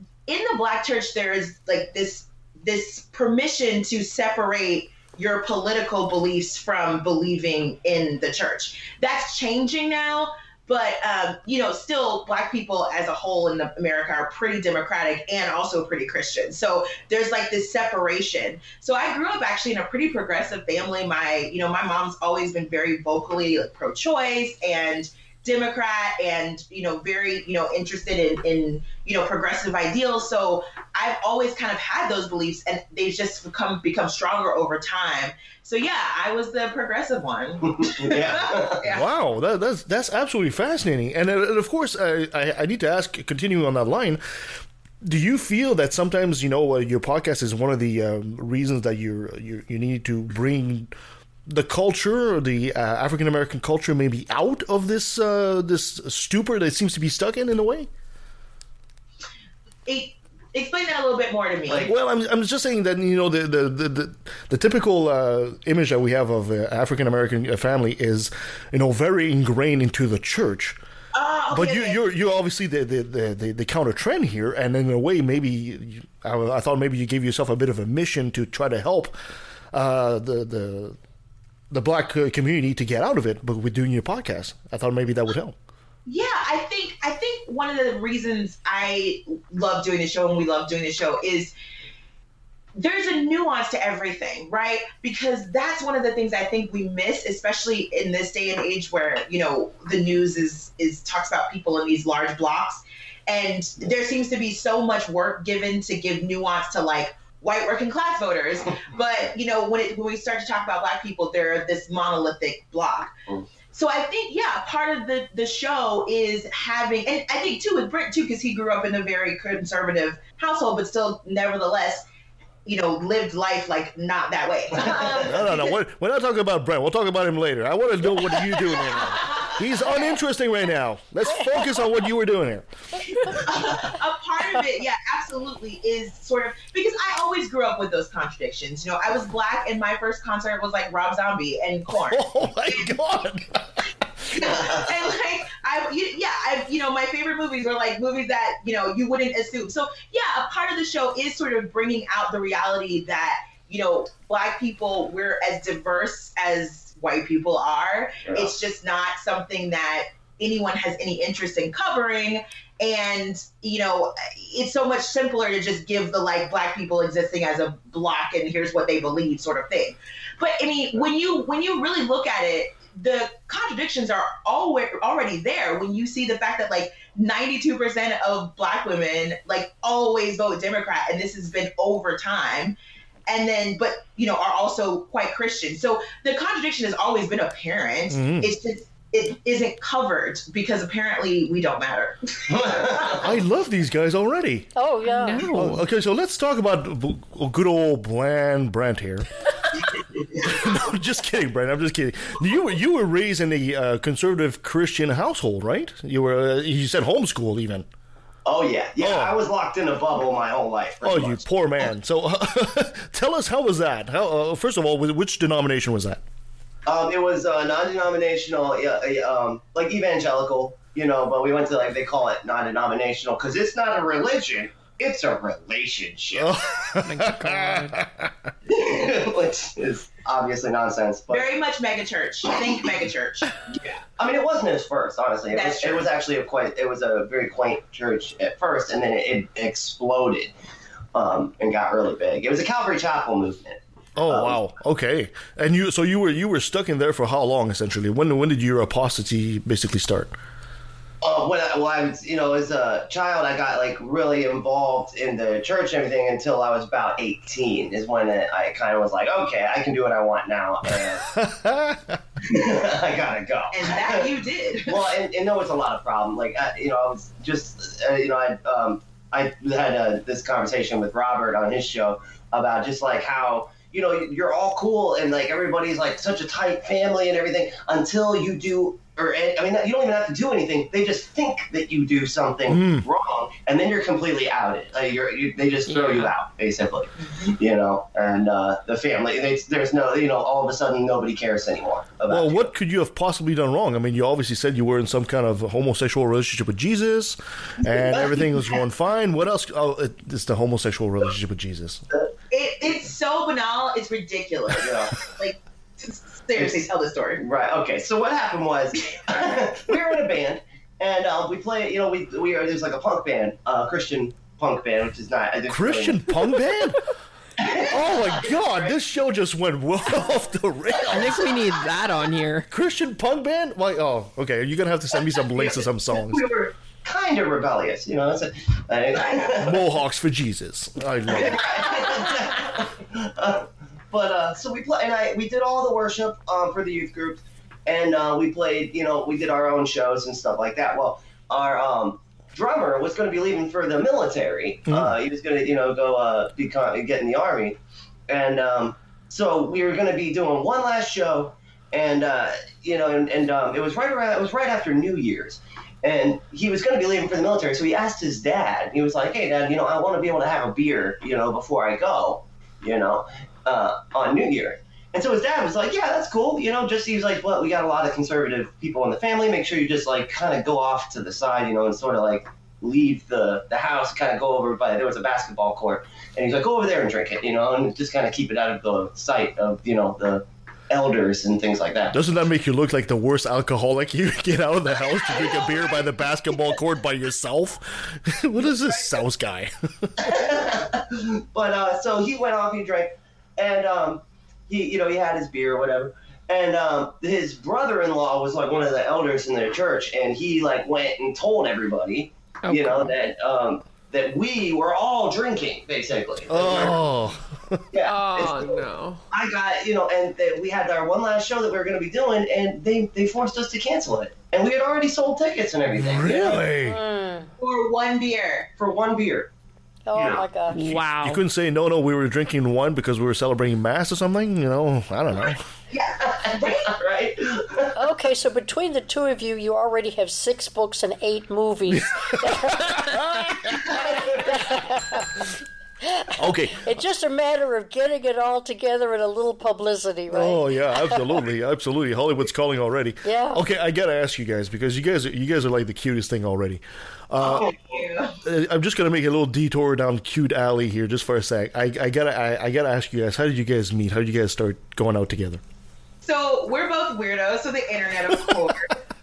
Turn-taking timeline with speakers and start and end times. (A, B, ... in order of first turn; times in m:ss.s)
0:00.3-0:39.0 A
0:37.8-0:38.8 B
0:38.9-0:44.2 C
0:45.0-0:50.9 C
0:51.5-0:57.9 C
0:59.8-1:01.9 A
1:01.8-1:10.8 C
1:11.1-1:12.0 A
1:11.5-1:19.1 C
1:19.7-1:21.0 C
1:21.7-1:25.5 C
1:26.0-1:31.5 A
1:32.8-1:53.1 A
1:53.6-2:02.0 A
2:02.6-2:05.8 A
2:05.2-2:12.6 C
2:09.2-2:10.0 A
2:11.3-2:11.8 D
2:13.3-2:23.0 A
2:22.0-2:24.4 C
2:24.3-3:02.8 A
2:24.5-2:24.8 B
2:38.2-2:38.5 B
3:03.3-3:13.2 A
3:08.1-3:08.5 C
3:12.5-3:13.3 B
3:13.2-3:14.7 C
3:14.8-3:15.5 D
3:15.0-3:15.8 E
3:15.5-3:19.3 C
3:20.2-3:20.4 B
3:20.4-3:27.9 C
3:28.4-3:31.4 B
3:29.0-3:29.4 C
3:31.0-3:36.2 C
3:36.8-3:46.5 B
3:46.4-3:48.3 C
3:47.0-3:48.0 E
3:48.7-3:51.5 B
3:51.3-3:53.6 A
3:53.7-4:00.5 B
3:55.5-3:56.1 A
4:01.1-4:04.6 B
4:04.2-4:10.3 C
4:11.2-4:21.3 B
4:21.3-4:22.2 C
4:22.4-4:24.3 B
4:23.7-4:25.1 A
4:24.9-4:52.7 B
4:42.7-4:43.0 C
4:45.9-4:46.3 E
4:52.3-5:02.0 C
4:57.8-4:58.7 B
5:02.5-5:07.4 A
5:04.7-5:05.2 B
5:06.6-5:06.8 B
5:07.4-5:16.4 B
5:09.3-5:09.6 A
5:15.7-5:17.1 C
5:17.6-5:18.9 B
5:17.9-5:21.4 C
5:21.1-5:22.7 E
5:22.7-5:26.5 C
5:25.5-5:29.8 B
5:29.6-5:31.7 C
5:31.3-6:22.2 B
5:44.9-5:45.2 C
6:22.1-6:30.4 C
6:30.2-6:47.1 B
6:42.6-6:43.2 E
6:46.5-6:47.8 C
6:47.9-6:56.6 B
6:48.0-6:49.2 E
6:56.0-6:57.0 C
6:56.8-6:57.5 D
6:57.6-6:58.7 A
6:58.8-6:59.5 B
7:00.0-7:00.9 D
7:00.1-7:00.4 B
7:00.7-7:01.4 E
7:00.8-7:05.7 C
7:05.9-7:07.0 A
7:06.2-7:08.0 B
7:08.0-7:15.3 D
7:12.3-7:13.9 C
7:13.8-7:14.4 B
7:16.0-7:21.4 D
7:16.4-7:16.9 C
7:20.3-7:27.7 C
7:23.2-7:23.6 D
7:27.4-7:28.4 A
7:27.5-7:28.0 B
7:28.4-7:35.6 C
7:36.2-7:39.0 A